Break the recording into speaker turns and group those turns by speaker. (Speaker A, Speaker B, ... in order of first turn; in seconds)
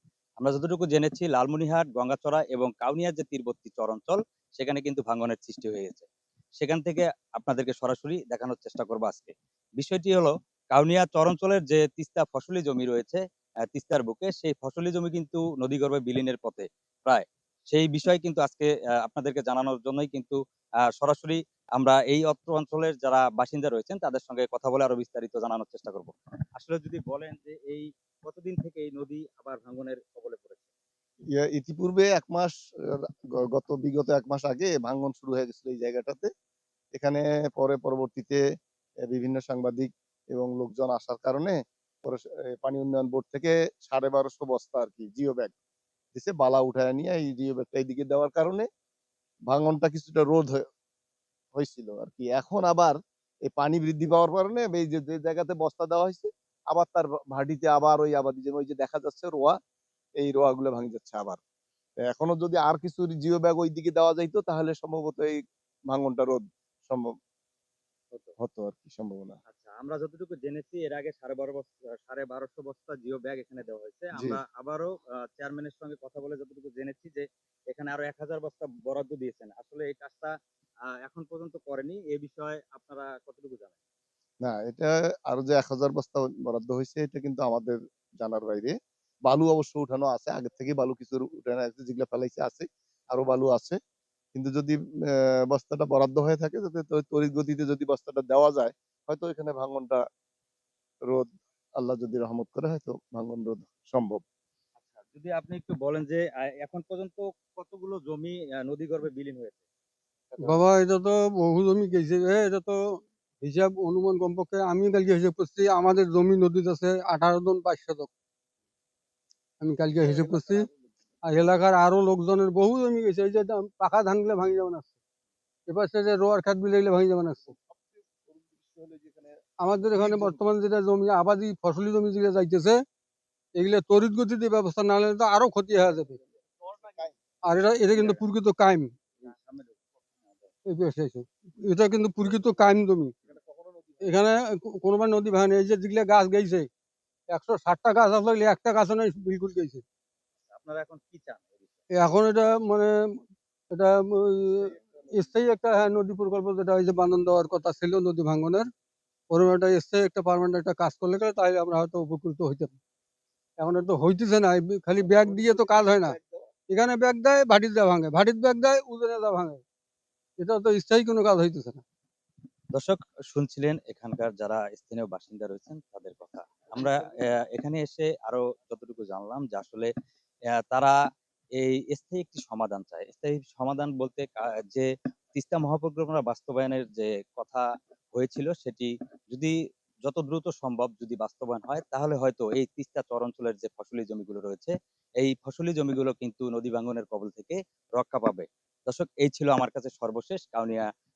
Speaker A: 0.4-6.1, 6.6-13.2, 13.7-20.4, 21.0-30.7, 69.5-80.3, 81.0-83.8, 104.8-109.6, 139.2-140.5, 150.5-151.8, 172.7-179.9, 180.6-181.0, 181.6-189.5, 190.0-200.9
Speaker B: 31.4-33.0, 33.5-36.3, 37.0-38.4, 39.1-45.5, 46.1-48.7, 49.5-50.6, 51.6-53.0, 53.5-59.5, 60.2-61.4, 62.1-65.4, 65.9-67.1, 68.4-69.4, 74.2-74.4, 84.5-88.8, 89.3-93.8, 94.3-100.0, 101.1-104.2, 110.3-110.6, 120.0-120.7, 127.5-129.4, 129.9-130.4, 136.1-137.1, 154.5-155.1, 165.0-166.5
Speaker C: 110.4-118.1, 119.6-120.7, 121.3-124.9, 125.7-127.5, 129.6-132.8, 133.6-136.2, 137.4-138.9, 140.7-143.1, 144.0-146.7, 147.3-149.8, 152.0-158.7, 159.3-162.7, 163.6-166.2, 166.7-169.6, 170.4-171.8